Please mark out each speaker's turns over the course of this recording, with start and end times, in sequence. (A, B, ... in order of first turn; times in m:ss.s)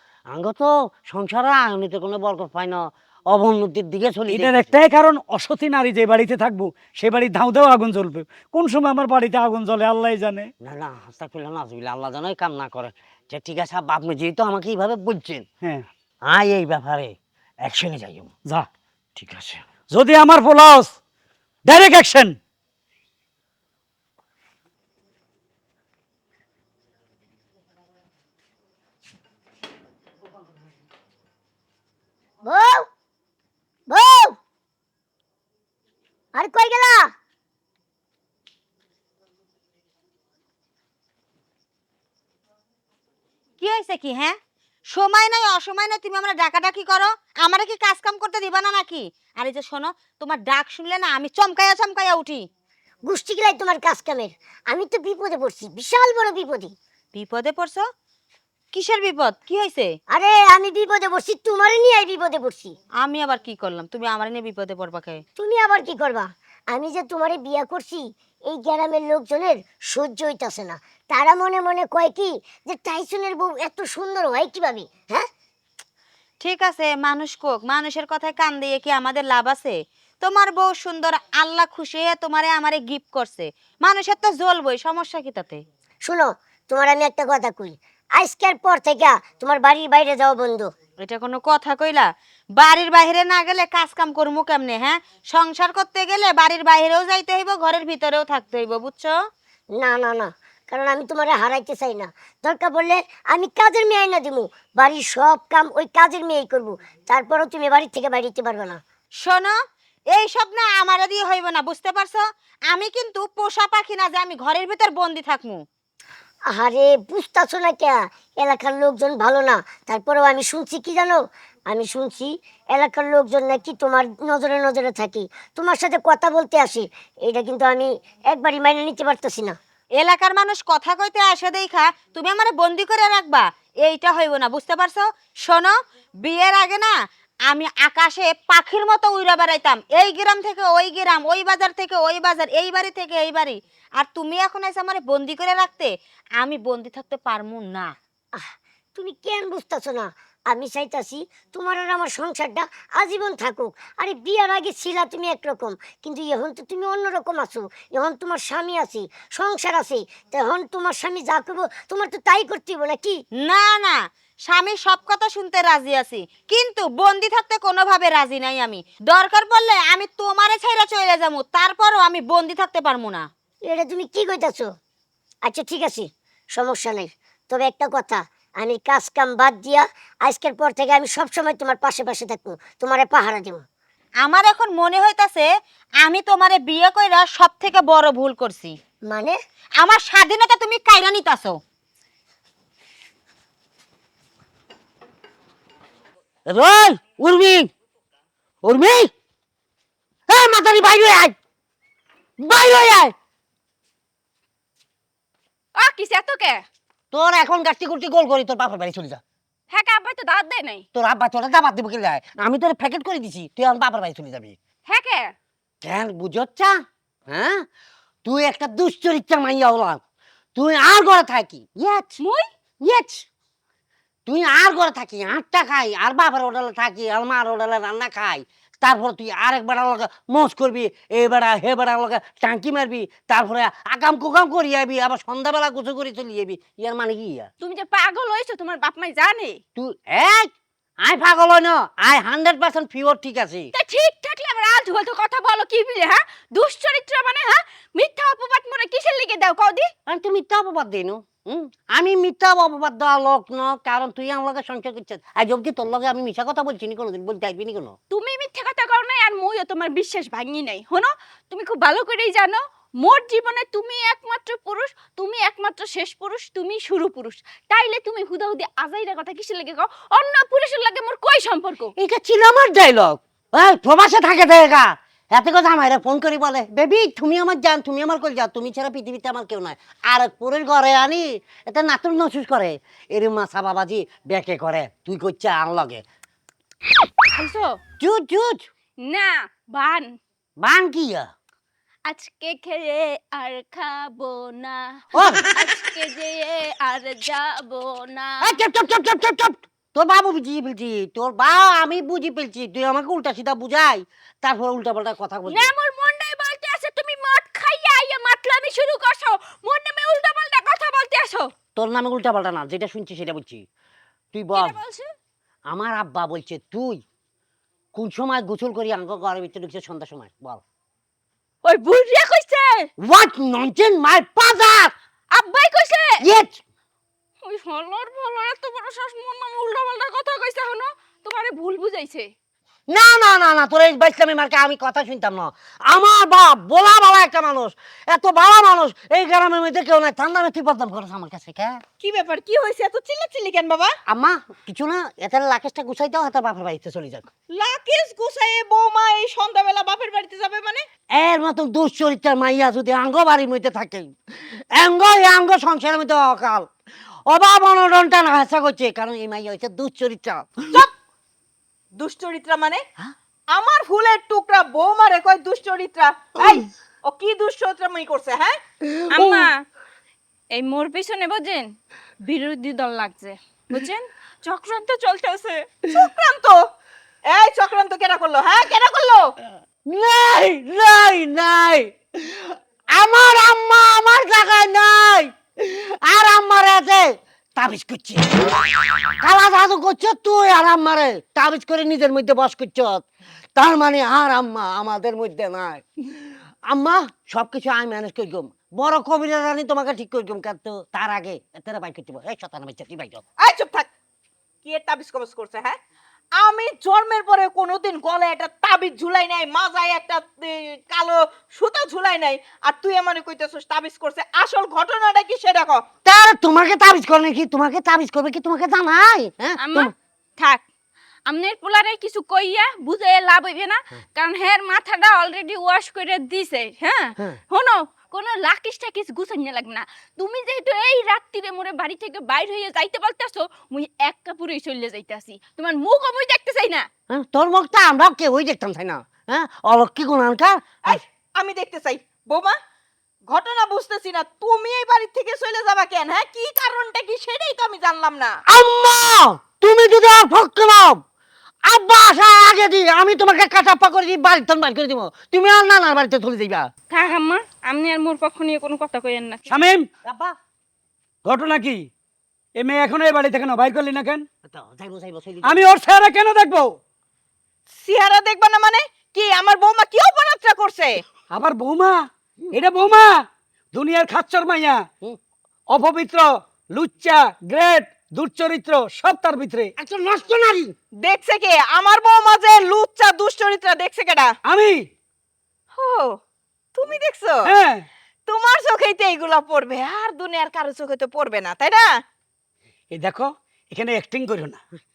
0:00.3-0:04.7 A
0:04.3-0:10.5 B
0:10.6-0:15.4 A
0:16.3-0:18.3 A
0:19.2-0:19.6 A
0:19.9-0:21.0 B
0:21.7-0:22.4 B
0:32.4-0:32.9 C
0:33.9-0:34.4 C
0:36.4-0:37.1 C
0:43.6-0:44.4 D
0:44.9-0:52.5 D
0:53.0-0:56.7 C
0:57.1-0:57.9 D
0:58.7-1:00.0 D
1:00.1-1:02.8 C
1:03.0-1:05.2 D
1:05.4-1:15.3 C
1:16.4-1:25.6 D
1:26.0-1:30.7 C
1:31.0-1:39.2 D
1:39.8-1:48.8 C
1:49.2-1:49.5 D
1:50.1-1:55.6 D
1:56.5-2:09.6 C
2:10.0-2:17.0 D
2:17.5-2:28.0 D
2:28.4-2:43.2 C
2:43.4-2:53.3 D
2:53.7-2:54.7 C
2:55.4-3:03.6 C
3:04.2-3:05.5 D
3:06.0-3:08.8 D
3:09.1-3:09.4 C
3:09.8-3:11.6 D
3:16.5-3:17.7 A
3:18.6-3:19.1 A
3:20.3-3:21.4 A
3:22.4-3:23.2 A
3:25.8-3:26.6 E
3:27.1-3:29.2 A
3:29.7-3:30.8 E
3:31.0-3:34.6 A
3:34.9-3:35.3 E
3:35.8-3:36.8 A
3:37.3-3:37.6 A
3:38.2-3:40.0 A
3:40.6-3:42.2 A
3:42.8-3:43.2 A
3:44.3-3:57.5 A
3:57.6-3:59.6 E
3:59.8-4:03.7 A
4:03.8-4:09.9 E
4:10.1-4:18.0 A
4:18.1-4:31.9 E
4:32.0-4:46.0 A
4:47.3-4:47.8 E
4:48.0-4:48.7 A
4:49.0-4:50.1 E
4:50.6-4:51.3 A
4:52.1-4:58.7 E
4:55.1-4:55.5 A
4:58.4-5:05.7 A
5:05.5-5:11.5 E
5:11.8-5:13.6 A
5:14.3-5:14.8 A
5:14.5-5:15.1 E
5:15.7-5:17.0 A
5:17.9-5:20.6 A
5:21.6-5:22.9 E
5:23.0-5:25.0 A
5:25.3-5:26.2 E
5:26.2-5:26.6 A
5:27.4-5:32.3 E
5:32.9-5:41.8 A
5:42.0-5:44.0 F
5:44.1-5:47.3 A
5:47.5-5:50.9 F
5:51.1-5:56.7 A
5:57.3-6:00.6 A
6:02.0-6:02.8 F
6:03.5-6:08.6 F
6:09.1-6:09.6 E
6:10.5-6:11.7 E
6:12.2-6:15.5 E
6:14.8-6:15.1 F
6:15.8-6:16.6 F
6:17.3-6:19.3 F
6:19.9-6:43.2 A
6:43.4-6:43.9 F
6:44.6-6:45.8 F
6:46.4-6:55.8 F
6:56.0-6:59.9 A
6:59.6-7:00.6 E
7:01.3-7:16.9 E
7:17.1-7:21.0 A
7:20.8-7:22.6 F
7:23.3-7:28.4 F
7:28.5-7:31.0 A
7:31.6-7:36.7 A
7:36.9-7:39.4 E
7:39.5-7:39.9 B
7:40.0-7:40.4 A
7:41.2-7:41.8 B
7:42.6-7:44.2 B
7:44.4-7:45.6 A
7:45.4-7:46.7 B
7:47.7-7:51.0 F
7:51.3-7:52.0 B
7:52.5-7:53.1 B
7:53.7-7:54.8 B
7:55.7-7:59.7 B
7:59.8-8:00.8 A
8:01.0-8:04.4 F
8:04.5-8:04.8 B
8:05.7-8:06.2 F
8:06.7-8:07.5 F
8:07.4-8:07.9 B
8:08.3-8:11.9 F
8:12.9-8:14.6 B